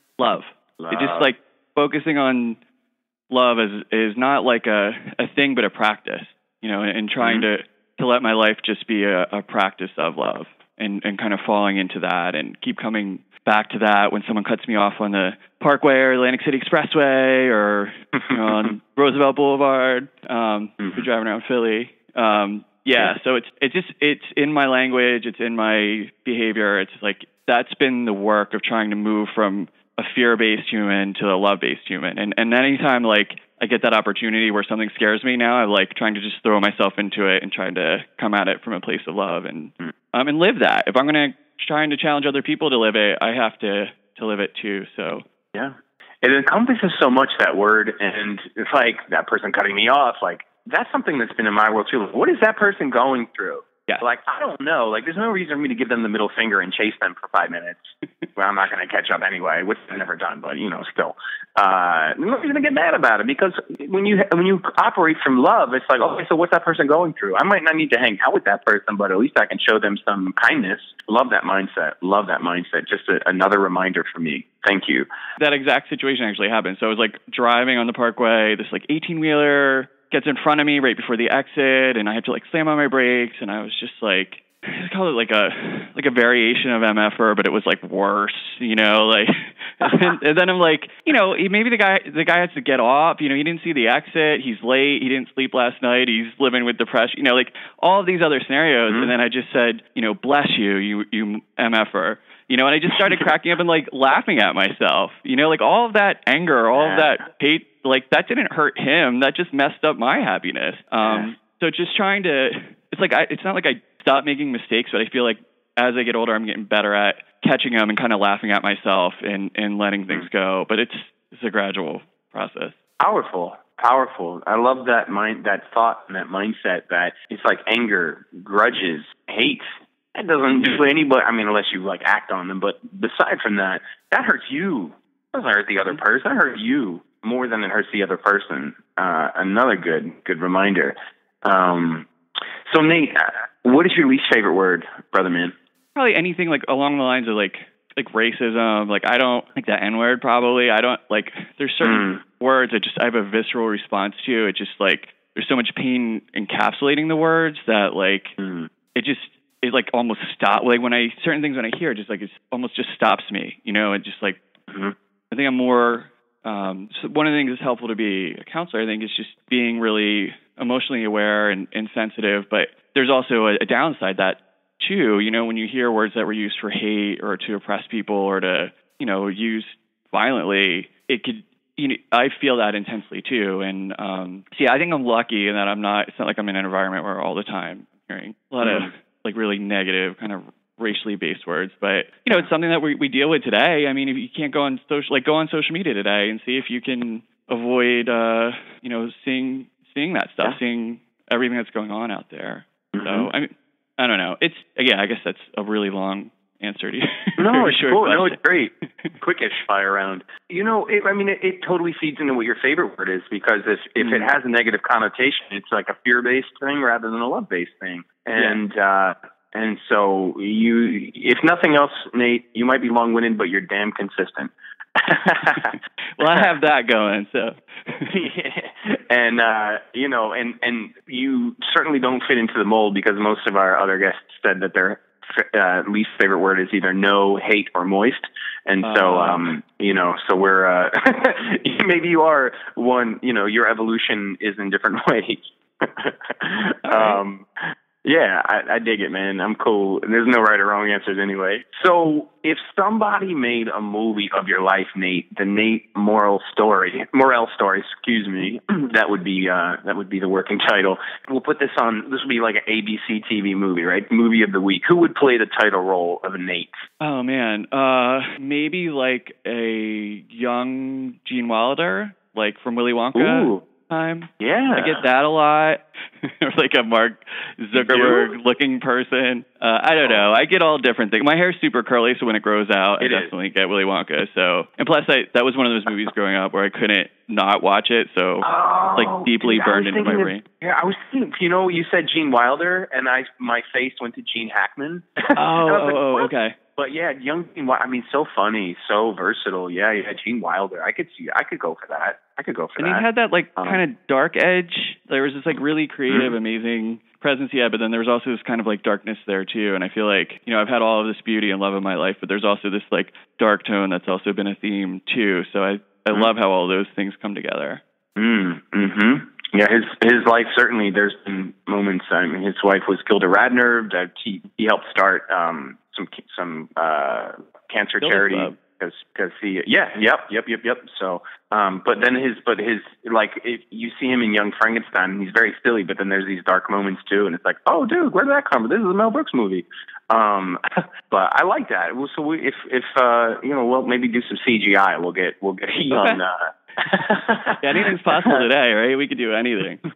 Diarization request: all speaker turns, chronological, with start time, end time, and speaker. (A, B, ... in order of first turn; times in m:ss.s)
0:00.2-0:02.6 A
0:00.8-0:01.3 B
0:03.3-0:45.2 A
0:07.2-0:07.5 B
0:45.5-1:15.1 B
1:15.4-2:02.8 A
1:46.8-1:47.1 B
1:51.0-1:51.3 B
2:03.0-2:22.1 B
2:22.7-2:25.5 B
2:26.0-2:38.4 A
2:31.8-2:32.2 B
2:38.4-2:38.7 B
2:39.0-2:44.4 A
2:45.3-3:28.4 A
3:08.6-3:08.9 B
3:22.9-3:23.3 B
3:27.4-3:45.8 B
3:34.0-3:34.3 A
3:46.2-3:48.1 A
3:48.1-4:07.5 B
3:58.8-3:59.5 A
4:06.8-4:07.2 A
4:08.0-4:26.8 B
4:27.0-4:50.4 A
4:33.2-4:33.6 B
4:34.4-4:35.0 B
4:37.8-4:38.3 B
4:43.0-4:43.3 B
4:48.4-5:03.0 B
4:55.4-4:56.6 A
5:02.8-5:17.8 A
5:06.1-5:06.4 B
5:18.2-5:48.4 B
5:28.0-5:28.6 A
5:45.9-5:46.2 A
5:47.6-5:49.8 A